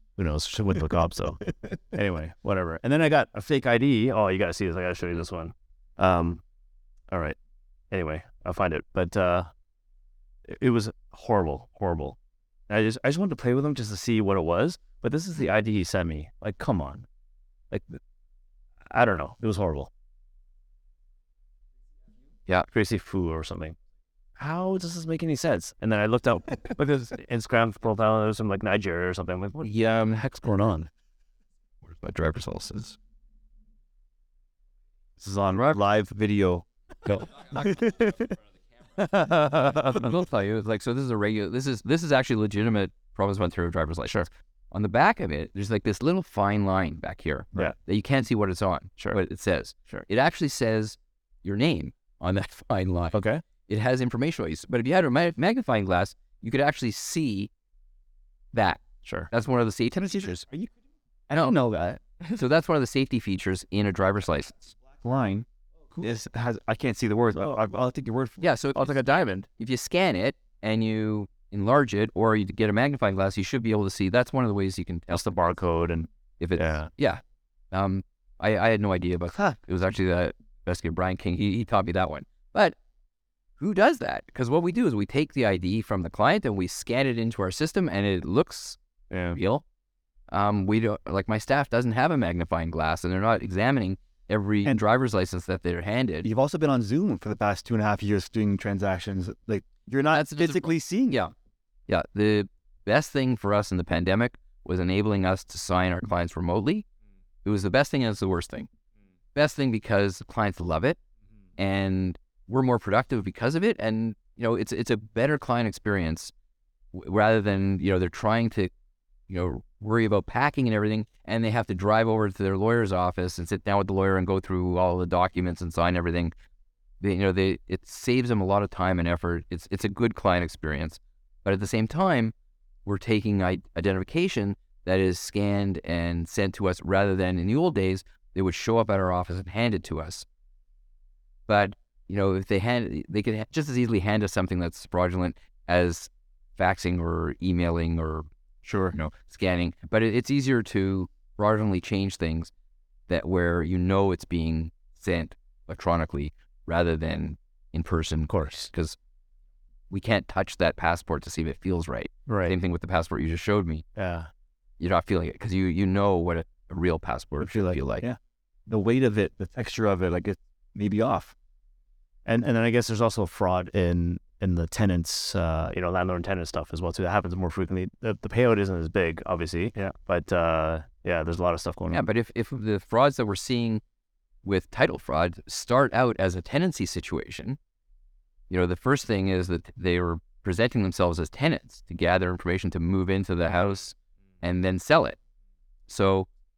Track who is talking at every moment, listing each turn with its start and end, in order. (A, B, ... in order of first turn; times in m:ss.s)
0:00.2-0:06.4 A
0:07.1-0:07.4 A
0:07.9-0:09.5 A
0:10.5-0:12.2 A
0:12.7-0:17.1 A
0:17.7-0:18.0 A
0:18.9-0:19.9 A
0:22.7-0:23.8 A
0:24.4-0:29.7 A
0:29.8-0:30.9 B
0:31.8-0:33.0 C
0:35.2-0:36.7 B
0:37.1-0:37.5 C
0:37.6-0:38.2 B
0:37.7-0:38.2 A
0:39.1-0:39.8 A
0:39.8-0:57.5 C
0:53.1-0:53.4 A
0:58.5-1:00.5 C
0:59.9-1:00.7 B
1:01.3-1:02.0 B
1:02.3-1:04.8 C
1:05.0-1:08.4 B
1:08.4-1:15.4 C
1:08.8-1:09.4 A
1:15.1-1:16.9 A
1:16.4-1:22.8 C
1:23.6-1:28.8 C
1:29.1-1:29.4 A
1:29.3-1:29.6 C
1:30.3-1:36.3 C
1:36.2-1:41.2 B
1:40.1-1:41.3 C
1:41.9-1:46.9 C
1:47.4-1:48.7 C
1:49.4-1:51.0 C
1:51.6-1:56.3 C
1:56.9-1:58.7 C
1:59.3-2:06.3 C
2:07.0-2:12.3 C
2:12.9-2:20.3 C
2:21.5-2:32.5 C
2:33.1-2:39.0 C
2:38.3-2:38.7 A
2:39.9-2:43.8 C
2:42.3-2:42.6 A
2:44.0-2:44.3 A
2:44.8-2:48.1 C
2:47.4-2:48.2 B
2:48.7-2:51.4 B
2:52.3-3:02.0 A
3:01.9-3:03.8 C
3:04.4-3:07.6 C
3:08.5-3:15.2 C
3:15.9-3:16.3 C